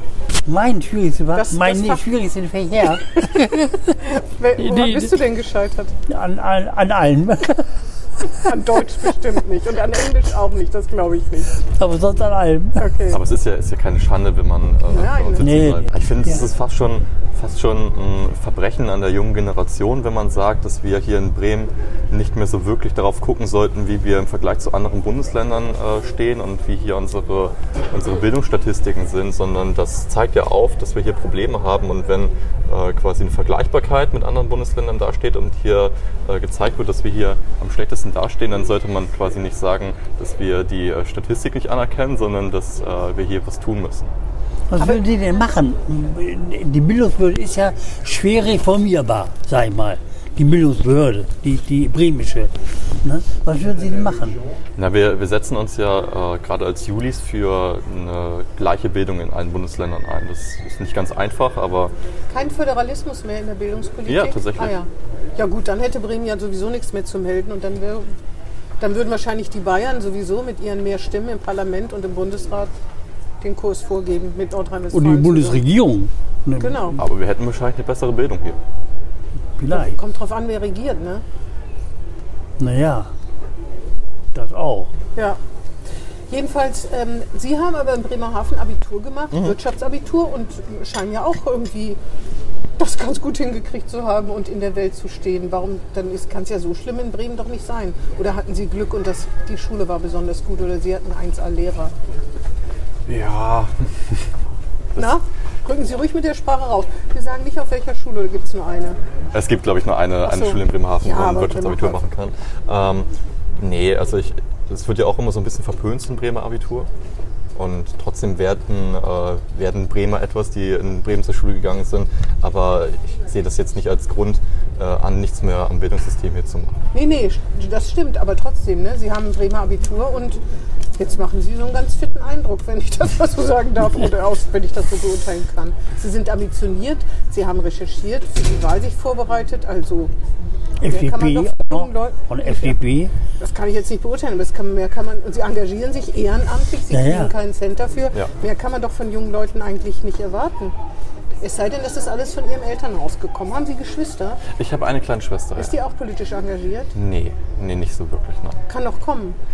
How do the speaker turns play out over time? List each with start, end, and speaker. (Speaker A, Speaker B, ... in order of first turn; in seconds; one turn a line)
Speaker A: 0.5-4.0
Speaker B: 1.4-2.0
Speaker B: 4.0-5.9
Speaker A: 4.6-5.2
Speaker A: 6.1-7.7
Speaker B: 8.3-11.6
Speaker A: 11.8-12.8
Speaker B: 12.8-13.2
Speaker C: 13.1-44.1
Speaker B: 14.9-15.6
Speaker A: 15.4-16.4
Speaker A: 44.7-52.5
Speaker A: 53.0-54.4
Speaker C: 54.8-61.9
Speaker B: 62.3-68.1
Speaker C: 64.1-64.7
Speaker B: 68.8-72.7
Speaker B: 73.4-75.6
Speaker A: 74.9-77.0
Speaker B: 76.6-77.0
Speaker C: 77.0-78.6
Speaker A: 79.6-80.0
Speaker B: 79.7-81.2
Speaker A: 82.6-83.1
Speaker A: 84.3-84.9
Speaker B: 86.3-92.0
Speaker B: 92.8-101.9
Speaker C: 103.1-104.2
Speaker B: 105.0-109.0
Speaker C: 109.3-116.9
Speaker B: 110.2-112.0
Speaker C: 117.5-126.8
Speaker B: 126.9-130.4
Speaker B: 131.0-140.1
Speaker A: 140.8-143.1
Speaker B: 140.9-142.8
Speaker B: 143.4-150.8
Speaker A: 146.9-147.3
Speaker B: 151.4-154.4
Speaker C: 154.5-155.8
Speaker B: 155.6-156.9
Speaker C: 156.9-158.6
Speaker B: 158.7-159.4